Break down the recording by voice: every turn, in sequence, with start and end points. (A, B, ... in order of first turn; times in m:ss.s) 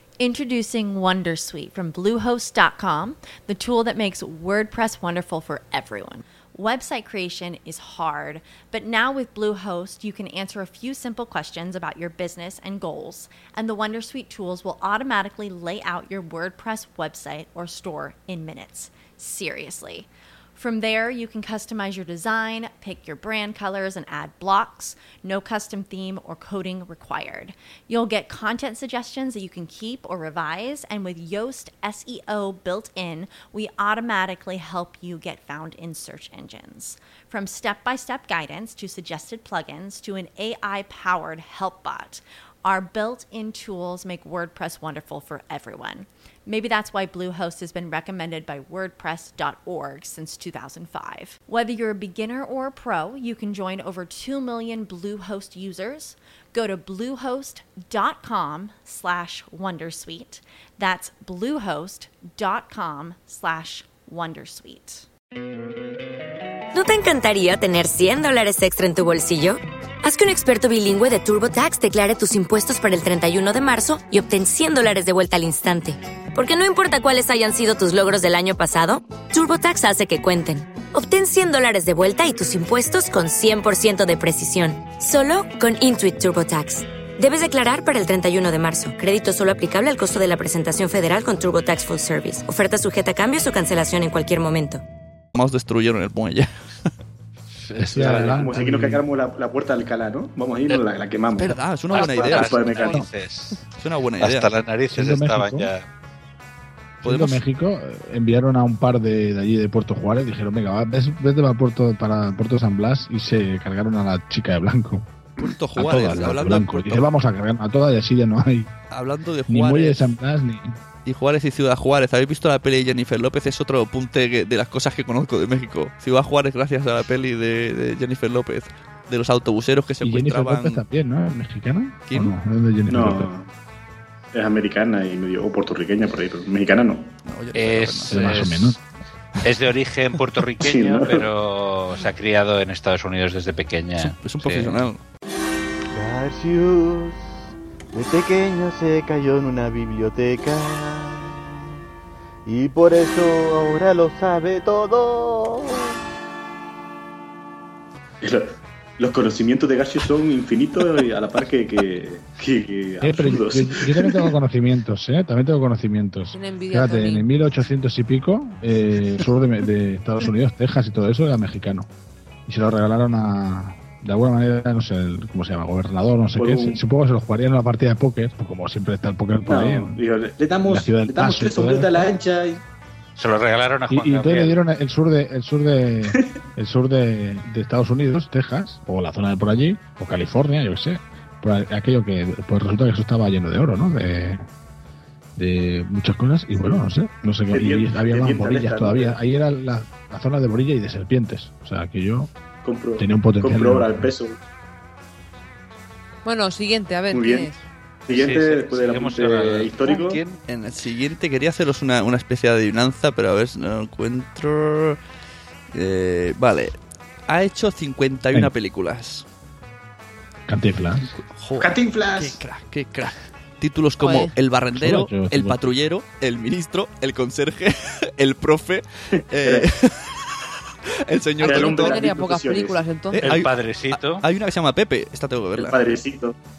0:00.2-1:05.1 A
1:06.7-1:34.8 B
1:35.4-1:36.5 C
1:37.6-1:38.5 D
1:37.8-1:39.0 E
1:38.0-1:43.1 F
1:41.4-1:42.7 C
1:41.9-1:43.6 D
1:43.8-1:44.5 C
1:44.2-1:45.8 D
1:44.9-1:45.7 E
1:47.0-1:47.4 C
1:47.0-1:55.0 E
1:55.4-1:57.1 C
1:55.8-1:58.7 E
1:58.9-2:00.0 C
1:59.5-2:00.8 E
2:01.1-2:10.8 C
2:10.0-2:13.3 E
2:12.1-2:12.4 C
2:12.9-2:13.5 F
2:14.3-2:17.1 F
2:17.3-2:18.6 C
2:17.6-2:18.8 D
2:18.1-2:18.8 E
2:19.4-2:24.8 D
2:20.6-2:21.3 F
2:24.0-2:25.0 C
2:25.9-2:27.4 G
2:27.9-2:31.5 G
2:32.5-2:36.0 G
2:38.2-2:44.3 F
2:43.0-2:51.9 E
2:46.3-2:47.3 H
2:52.5-2:59.9 E
2:56.4-2:56.8 F
2:59.5-3:02.6 F
3:00.7-3:02.1 E
3:03.2-3:04.6 D
3:03.9-3:14.4 E
3:15.4-3:22.3 E
3:17.5-3:19.2 F
3:22.6-3:24.4 F
3:23.0-3:24.0 E
3:26.2-3:27.6 H
3:27.1-3:27.5 F
3:28.1-3:30.2 F
3:28.1-3:30.4 D
3:30.5-3:35.0 C
3:35.7-3:36.7 C
3:37.3-3:39.2 C
3:40.5-3:41.0 E
3:41.4-3:50.3 C
3:41.6-3:42.4 F
3:44.0-3:44.3 H
3:44.8-3:45.6 E
3:51.1-3:52.0 C
3:51.4-3:53.3 H
3:51.4-3:53.4 F
3:53.1-3:56.0 C
3:53.2-3:54.2 D
3:55.6-3:56.3 F